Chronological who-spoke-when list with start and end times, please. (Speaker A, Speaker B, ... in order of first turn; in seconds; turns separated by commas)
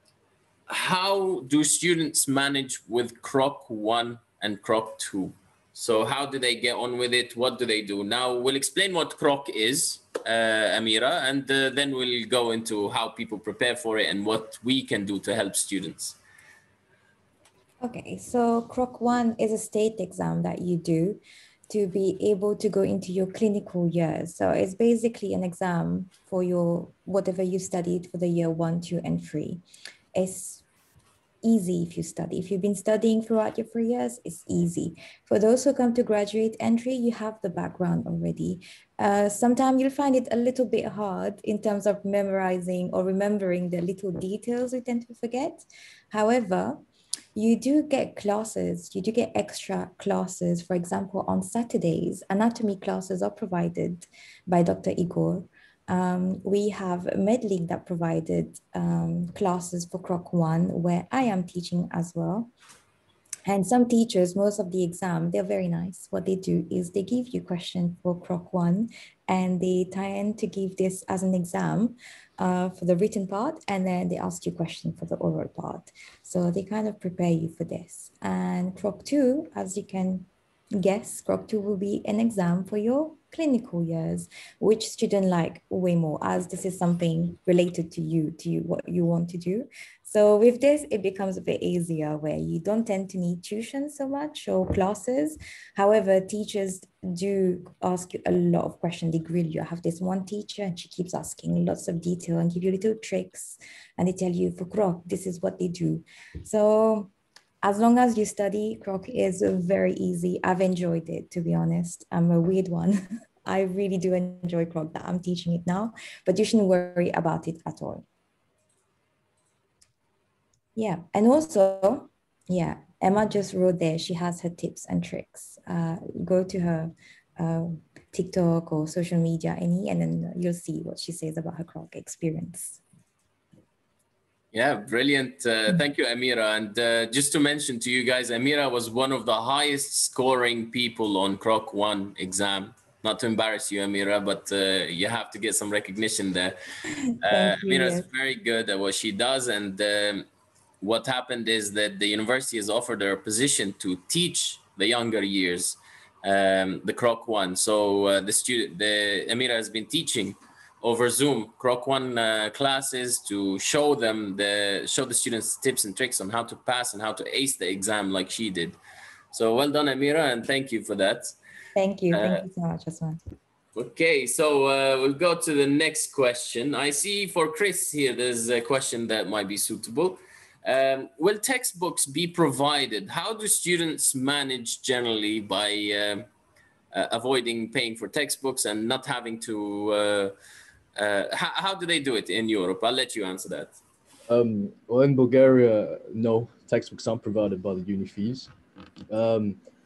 Speaker A: 0.7-16.2, Speaker B: 17.8-29.6, Speaker B: 30.1-30.6, Speaker B: 31.4-46.8, Speaker B: 47.4-62.5, Speaker B: 63.5-80.3, Speaker B: 80.8-107.1, Speaker B: 107.6-118.0, Speaker B: 120.8-132.8, Speaker A: 134.5-146.6, Speaker A: 147.2-150.3, Speaker B: 147.2-148.1, Speaker A: 150.8-168.8, Speaker A: 169.3-171.3, Speaker B: 171.8-173.2, Speaker A: 172.1-172.4, Speaker A: 173.8-186.3, Speaker A: 186.9-190.3, Speaker A: 191.0-193.8, Speaker C: 194.3-198.5, Speaker C: 199.1-199.6